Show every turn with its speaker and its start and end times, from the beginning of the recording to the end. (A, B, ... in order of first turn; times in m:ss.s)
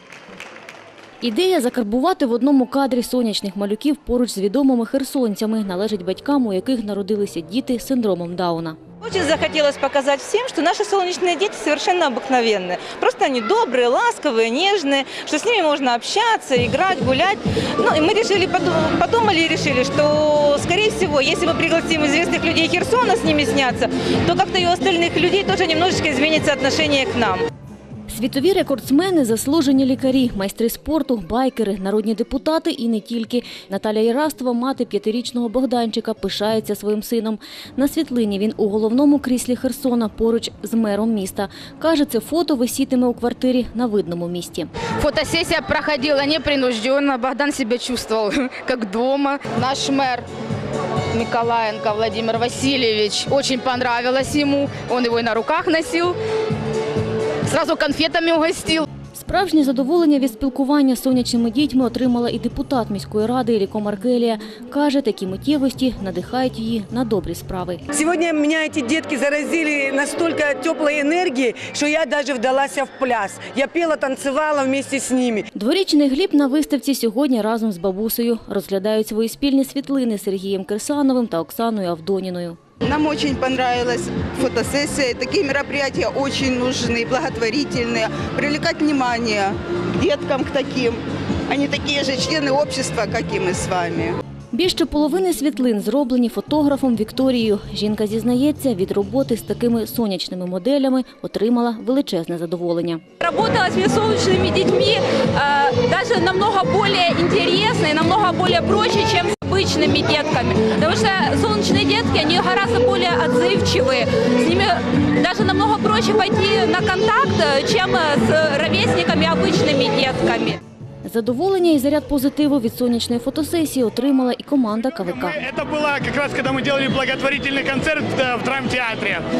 0:01.2-0:08.8 A
0:09.0-0:27.4 B
0:28.1-0:44.7 A
0:45.0-0:50.3 C
0:51.1-0:56.2 C
0:57.5-0:58.8 C
0:59.1-1:07.8 A
1:07.9-1:15.5 D
1:15.5-1:22.6 A
1:22.8-1:34.2 E
1:34.5-1:43.0 A
1:43.2-2:00.6 F
2:01.0-2:05.4 A
2:04.9-2:09.2 G